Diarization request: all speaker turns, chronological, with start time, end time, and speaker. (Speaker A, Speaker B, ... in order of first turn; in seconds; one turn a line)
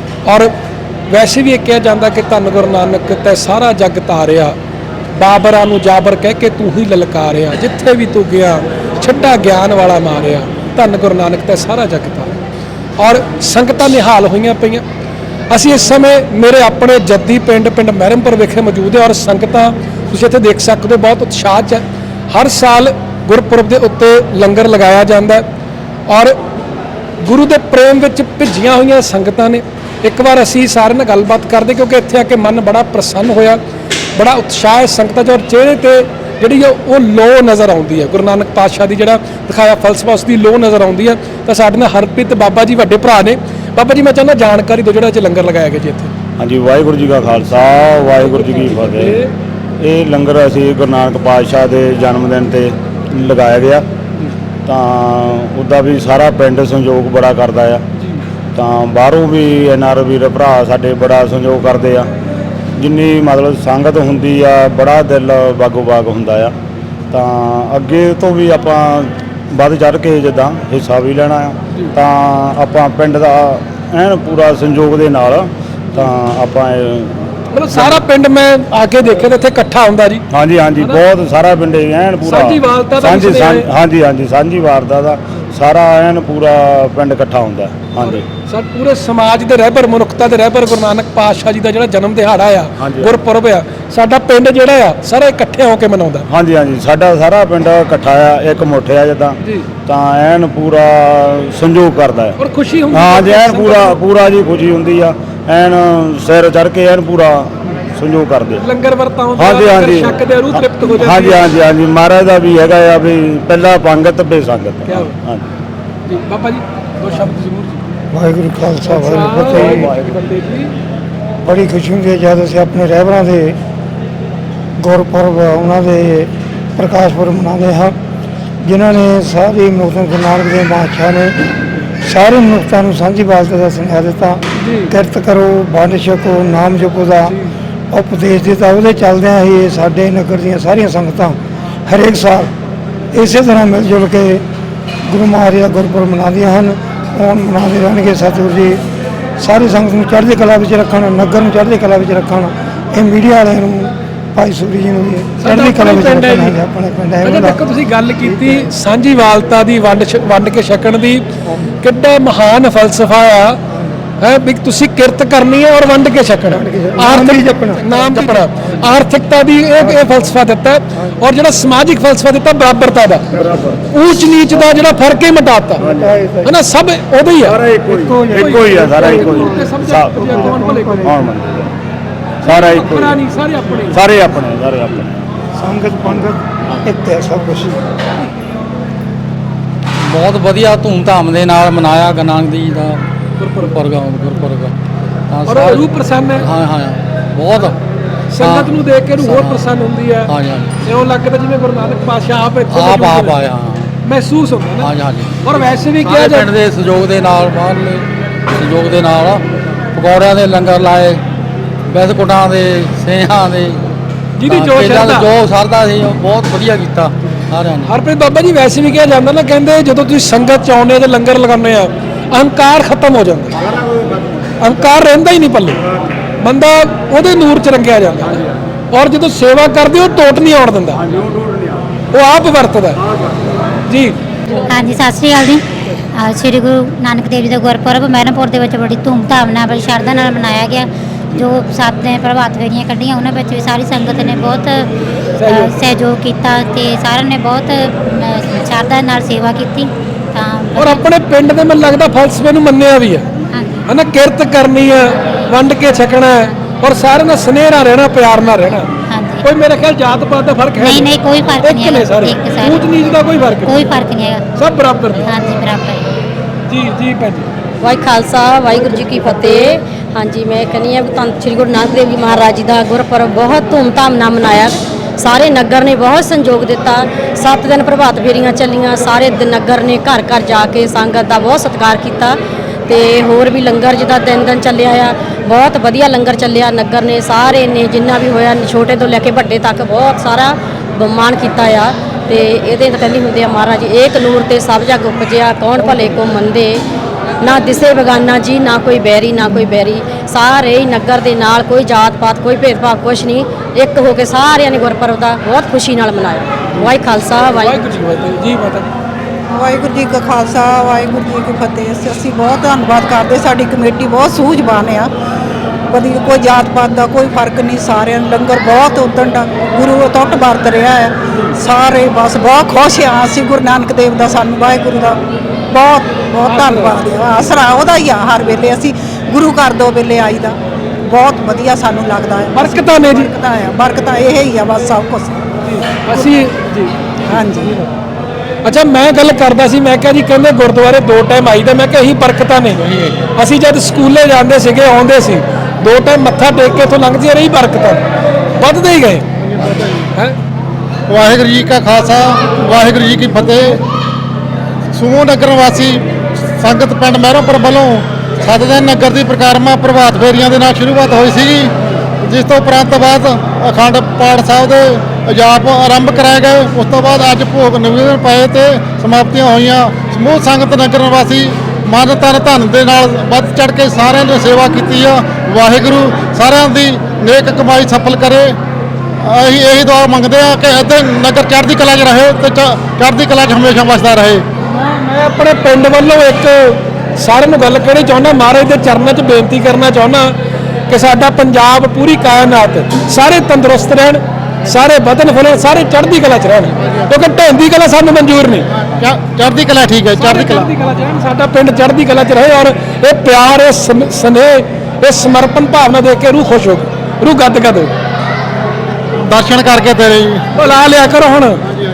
Speaker A: 0.3-0.5
Speaker A: 1.1-4.5
Speaker A: 5.2-12.3
Speaker A: 13.0-14.8
Speaker A: 15.5-25.4
Speaker A: 26.1-26.4
Speaker A: 27.2-33.6
Speaker A: 34.2-46.1
Speaker B: 46.4-49.2
Speaker A: 48.0-49.3
Speaker B: 49.8-53.9
Speaker B: 54.7-57.8
Speaker A: 58.0-58.2
Speaker B: 58.5-62.1
Speaker B: 62.8-66.5
Speaker B: 67.1-77.2
Speaker A: 77.5-80.2
Speaker B: 77.7-78.0
Speaker B: 80.3-88.2
Speaker A: 82.2-83.7
Speaker A: 88.0-96.3
Speaker B: 92.8-93.2
Speaker B: 96.3-102.4
Speaker A: 102.4-104.0
Speaker B: 102.9-108.6
Speaker A: 108.6-111.4
Speaker B: 109.4-115.4
Speaker A: 114.9-115.2
Speaker A: 116.1-117.8
Speaker C: 118.1-119.9
Speaker A: 118.8-120.7
Speaker C: 121.5-123.6
Speaker C: 124.8-128.0
Speaker C: 128.7-131.3
Speaker C: 132.1-137.4
Speaker A: 134.6-134.9
Speaker C: 137.9-141.4
Speaker C: 141.9-142.5
Speaker C: 143.1-144.4
Speaker C: 145.1-148.8
Speaker C: 149.4-157.6
Speaker A: 155.4-156.6
Speaker A: 157.2-161.3
Speaker C: 158.2-158.7
Speaker A: 161.8-163.6
Speaker A: 164.2-173.3
Speaker C: 166.5-168.5
Speaker C: 169.8-170.3
Speaker B: 173.6-173.8
Speaker A: 173.9-175.9
Speaker C: 175.8-176.6
Speaker A: 176.4-177.6
Speaker B: 177.5-181.7
Speaker C: 177.9-181.3
Speaker A: 178.3-181.1
Speaker B: 182.4-183.2
Speaker A: 182.4-184.0
Speaker B: 183.9-185.3
Speaker C: 185.6-187.8
Speaker B: 186.1-186.8
Speaker D: 190.0-193.0
Speaker A: 193.4-193.7
Speaker D: 193.6-194.7
Speaker D: 195.3-195.9
Speaker A: 195.5-196.5
Speaker D: 196.4-197.8
Speaker A: 198.3-200.3
Speaker D: 198.4-199.7
Speaker D: 200.3-200.8
Speaker A: 200.8-203.4
Speaker D: 202.7-203.9
Speaker A: 204.0-204.9
Speaker D: 204.8-211.2
Speaker A: 205.4-206.5
Speaker D: 211.9-213.8
Speaker A: 214.4-215.3
Speaker D: 214.5-217.9
Speaker A: 217.9-223.6
Speaker A: 224.6-225.8
Speaker A: 226.4-231.1
Speaker A: 232.1-233.0
Speaker A: 233.9-234.2
Speaker E: 234.7-235.6
Speaker E: 236.2-244.8
Speaker E: 245.4-251.1
Speaker A: 250.8-253.2
Speaker E: 253.5-253.8
Speaker A: 253.9-258.9
Speaker E: 259.1-259.5
Speaker A: 259.4-264.0
Speaker E: 260.8-264.4
Speaker A: 264.6-265.3
Speaker E: 265.1-266.2
Speaker A: 266.7-267.5
Speaker F: 267.8-282.3
Speaker F: 282.9-296.8
Speaker F: 297.4-307.7
Speaker A: 307.5-308.9
Speaker G: 309.5-315.1
Speaker G: 315.9-325.2
Speaker G: 325.7-335.4
Speaker A: 326.4-327.0
Speaker A: 332.6-333.3
Speaker A: 335.6-337.4
Speaker G: 336.1-336.4
Speaker G: 337.3-337.9
Speaker A: 338.6-348.0
Speaker A: 348.6-349.3
Speaker H: 349.5-350.0
Speaker H: 351.1-353.8
Speaker H: 354.9-356.0
Speaker H: 356.6-378.6
Speaker H: 379.2-384.4
Speaker A: 384.6-390.3
Speaker A: 390.9-398.7
Speaker H: 399.0-400.7
Speaker A: 400.1-407.9
Speaker H: 409.2-410.4
Speaker A: 410.6-411.6